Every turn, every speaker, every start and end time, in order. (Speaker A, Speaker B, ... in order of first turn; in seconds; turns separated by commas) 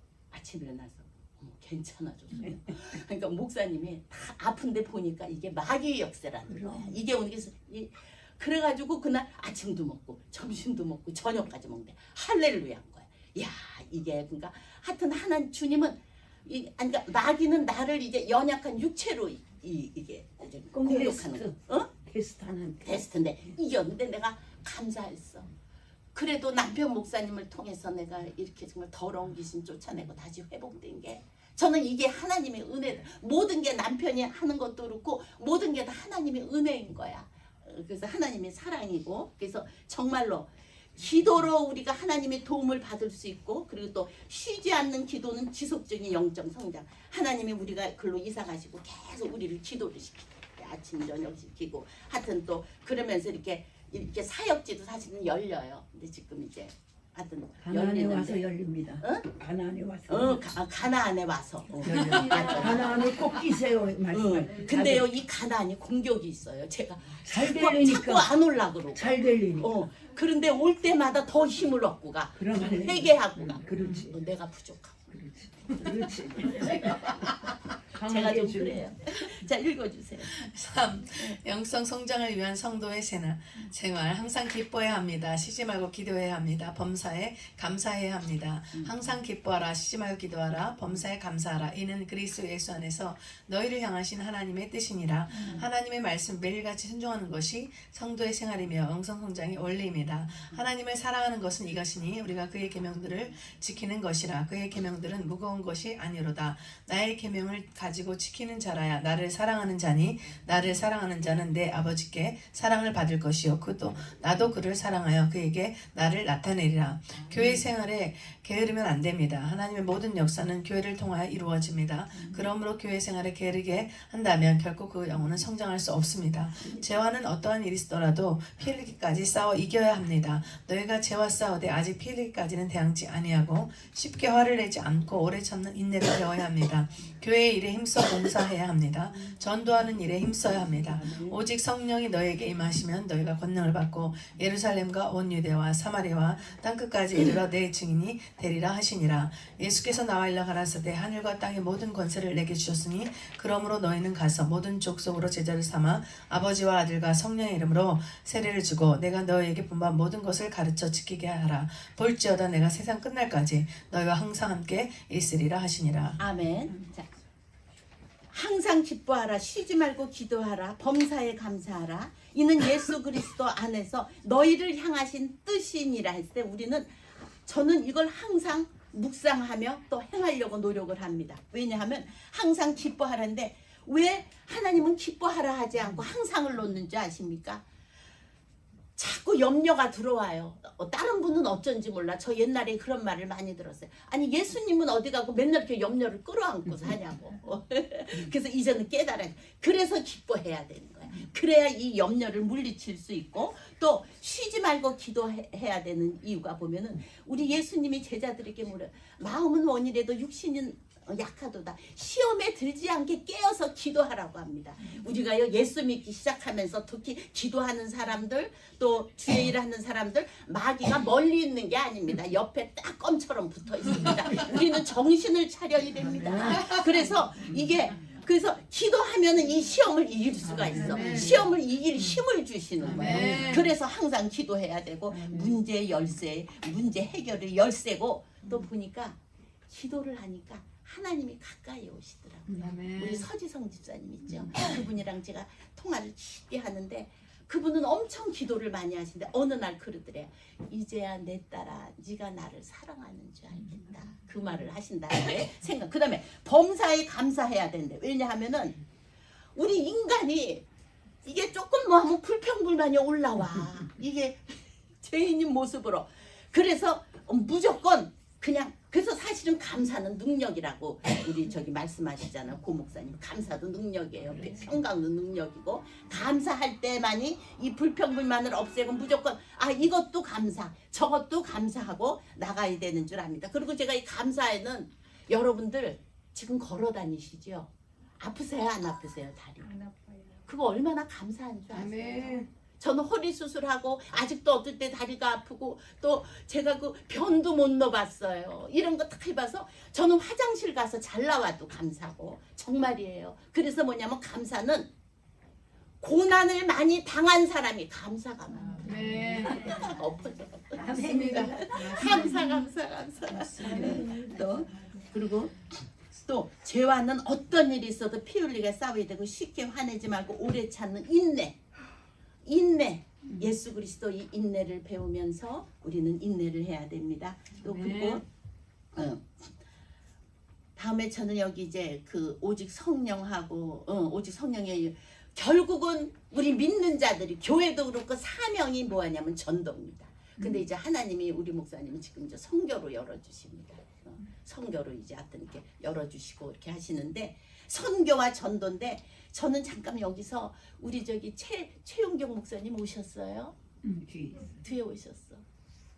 Speaker A: 0.3-21.9, Speaker B: 6.5-6.9, Speaker B: 20.7-23.0, Speaker A: 22.8-25.5, Speaker A: 26.1-59.3, Speaker B: 57.6-60.5, Speaker A: 60.1-62.9, Speaker B: 61.8-65.1, Speaker A: 64.1-75.0, Speaker B: 67.3-68.3, Speaker B: 68.9-69.7, Speaker B: 72.4-74.1, Speaker B: 75.1-77.4, Speaker A: 76.6-77.5, Speaker B: 77.9-78.8, Speaker A: 78.0-80.4, Speaker C: 80.3-166.2, Speaker B: 140.9-141.3, Speaker A: 166.2-167.1, Speaker A: 168.3-187.6, Speaker A: 189.0-239.2, Speaker B: 226.1-226.8, Speaker B: 230.5-231.4, Speaker C: 230.8-231.4, Speaker B: 232.8-233.6, Speaker C: 232.8-233.7, Speaker A: 239.7-258.8, Speaker C: 242.6-243.3, Speaker A: 259.5-260.6, Speaker A: 261.2-289.9, Speaker A: 290.4-304.9, Speaker C: 291.7-292.5, Speaker A: 306.0-314.2, Speaker C: 308.8-309.8, Speaker B: 310.8-312.1, Speaker C: 311.0-312.6, Speaker B: 313.6-314.8, Speaker A: 315.1-321.6, Speaker A: 322.4-328.2, Speaker C: 327.6-328.2, Speaker A: 328.9-329.5, Speaker A: 330.8-353.5, Speaker B: 353.8-354.5, Speaker A: 354.6-355.4